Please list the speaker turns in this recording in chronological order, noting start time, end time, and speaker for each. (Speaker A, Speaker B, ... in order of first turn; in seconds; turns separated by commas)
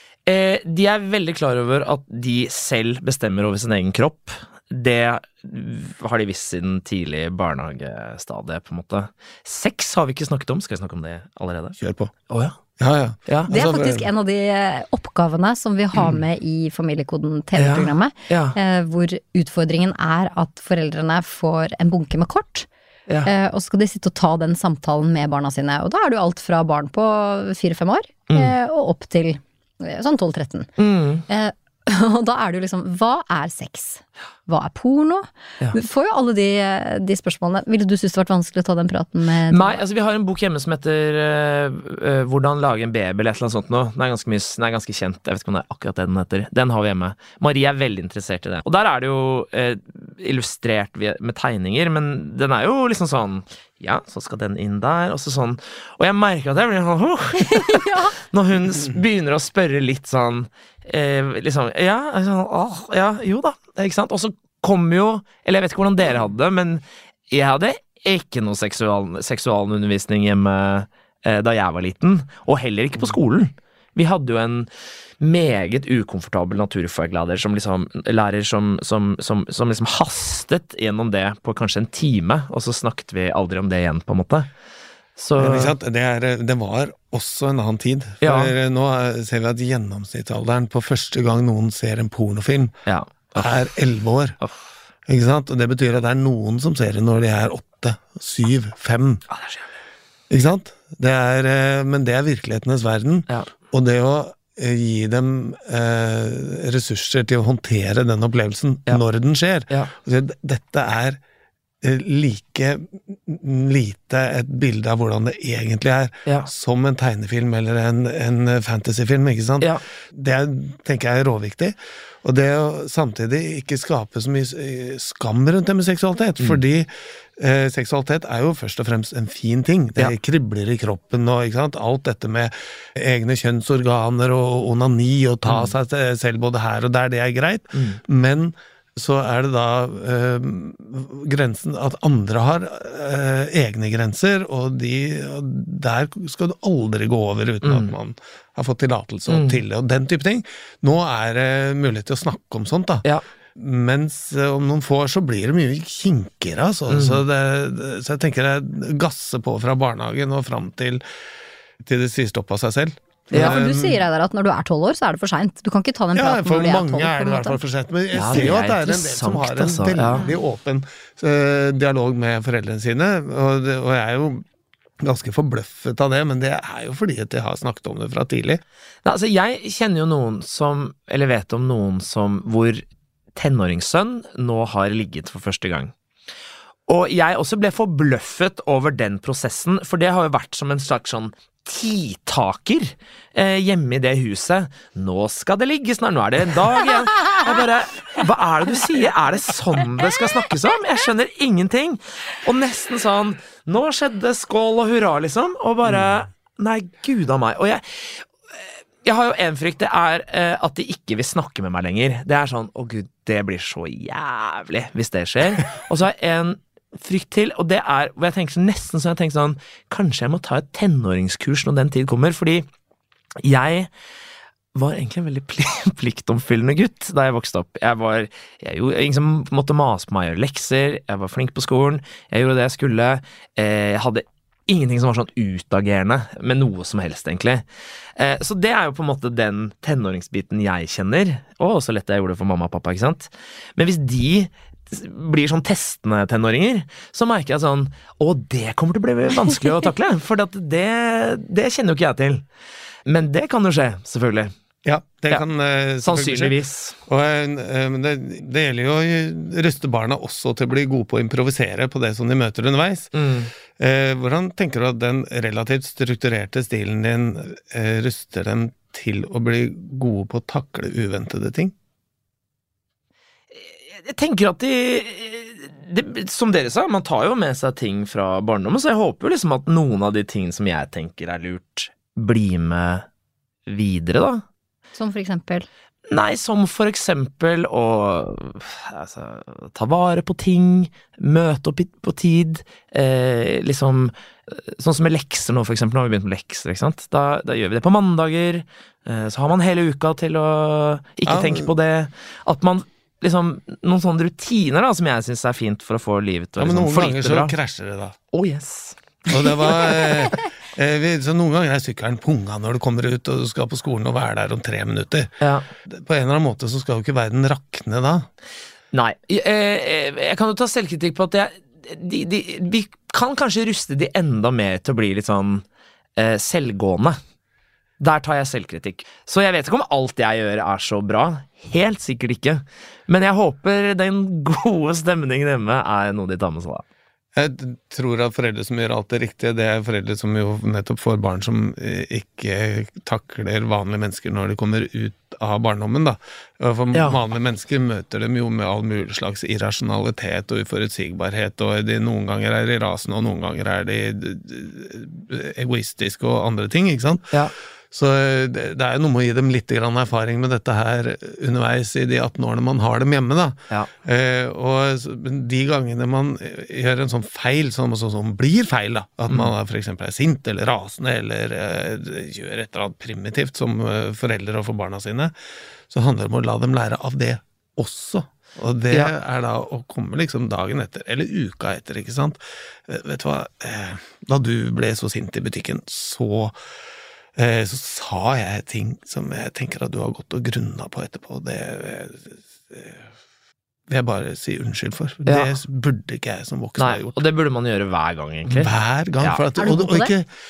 Speaker A: 0.2-12.6, Speaker B: 11.8-12.1, Speaker B: 12.8-14.1, Speaker C: 13.5-22.7, Speaker A: 17.6-18.6, Speaker C: 23.2-30.7, Speaker A: 30.8-31.2, Speaker C: 31.3-39.8, Speaker A: 39.5-74.7, Speaker C: 57.4-58.2, Speaker A: 75.2-84.5, Speaker A: 85.2-85.7, Speaker B: 85.4-92.7, Speaker A: 88.2-88.5, Speaker A: 92.9-93.6, Speaker B: 93.3-94.4, Speaker B: 95.1-99.2, Speaker A: 99.3-99.8, Speaker B: 100.3-111.2, Speaker B: 111.8-161.0, Speaker A: 135.4-135.7, Speaker A: 137.7-138.0, Speaker A: 147.6-147.9, Speaker A: 149.3-149.6, Speaker A: 156.9-157.2, Speaker B: 161.8-164.0, Speaker C: 163.3-167.6, Speaker B: 166.1-174.4, Speaker A: 168.1-170.3, Speaker B: 175.0-178.6, Speaker A: 179.0-182.8, Speaker A: 183.3-185.9, Speaker A: 186.9-222.7, Speaker A: 223.4-223.9, Speaker A: 224.7-237.6, Speaker A: 238.2-252.4, Speaker A: 253.1-254.5, Speaker B: 254.8-263.1, Speaker A: 256.0-257.0, Speaker A: 263.1-263.5, Speaker B: 263.7-271.7, Speaker A: 273.6-283.1, Speaker A: 283.7-284.4, Speaker C: 284.9-285.7, Speaker A: 286.1-307.5, Speaker B: 301.2-301.7, Speaker B: 306.6-308.1, Speaker A: 308.3-310.1, Speaker B: 309.3-318.3, Speaker A: 315.4-315.7, Speaker A: 318.9-325.6, Speaker A: 326.1-327.2, Speaker A: 328.0-336.8, Speaker B: 337.3-357.4, Speaker B: 357.9-375.3, Speaker B: 375.9-386.6, Speaker B: 387.4-393.1, Speaker B: 393.9-397.2, Speaker A: 395.2-395.6, Speaker A: 396.8-399.4, Speaker B: 398.5-400.3, Speaker C: 399.6-400.1